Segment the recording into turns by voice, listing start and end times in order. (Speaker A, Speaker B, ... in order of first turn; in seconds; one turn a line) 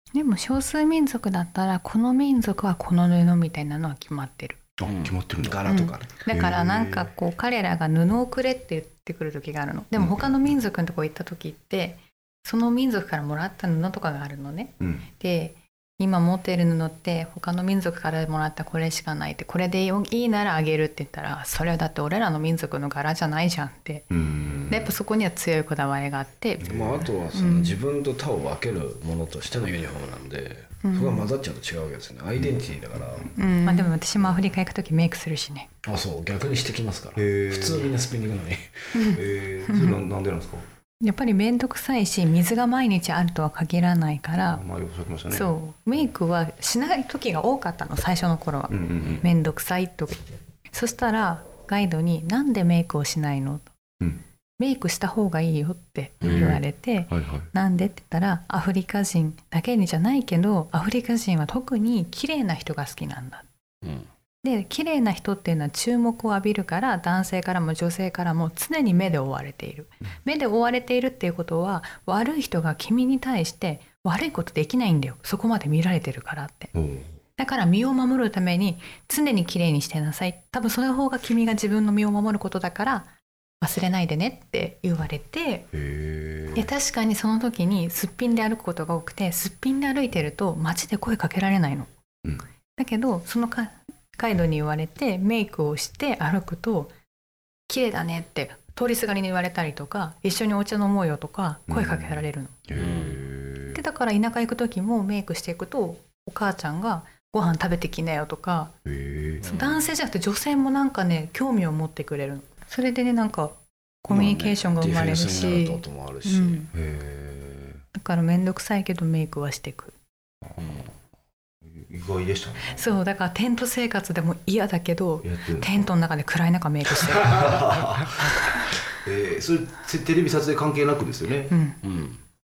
Speaker A: 0.1-4.7
Speaker B: 4.8-5.6
Speaker C: 4.8-6.1
Speaker A: 5.7-24.1
Speaker B: 6.3-7.1
Speaker B: 10.0-10.5
Speaker B: 14.8-15.1
Speaker B: 24.1-24.9
Speaker A: 24.7-26.7
Speaker B: 26.6-27.1
Speaker C: 26.6-33.6
Speaker A: 27.3-27.8
Speaker A: 30.8-31.3
Speaker A: 33.4-35.7
Speaker C: 35.9-39.1
Speaker B: 37.2-37.9
Speaker A: 38.9-40.0
Speaker B: 39.1-40.6
Speaker A: 41.0-44.6
Speaker B: 44.5-45.5
Speaker A: 45.3-53.7
Speaker B: 48.7-49.2
Speaker A: 54.6-63.5
Speaker C: 56.2-56.6
Speaker B: 56.2-57.5
Speaker C: 63.8-64.1
Speaker A: 64.4-76.7
Speaker B: 76.7-77.1
Speaker A: 77.4-83.1
Speaker A: 83.6-85.7
Speaker B: 85.7-86.7
Speaker A: 86.5-91.9
Speaker A: 92.8-96.9
Speaker A: 97.7-102.6
Speaker B: 101.7-103.8
Speaker C: 102.8-103.2
Speaker A: 103.7-108.7
Speaker B: 108.8-109.5
Speaker C: 109.4-109.8
Speaker A: 109.4-116.7
Speaker C: 114.1-116.7
Speaker B: 116.7-117.8
Speaker A: 117.9-120.0
Speaker C: 120.6-120.9
Speaker B: 121.7-122.9
Speaker A: 122.7-127.6
Speaker B: 125.2-125.8
Speaker B: 127.2-131.6
Speaker C: 127.3-128.0
Speaker A: 131.5-131.8
Speaker C: 131.8-132.2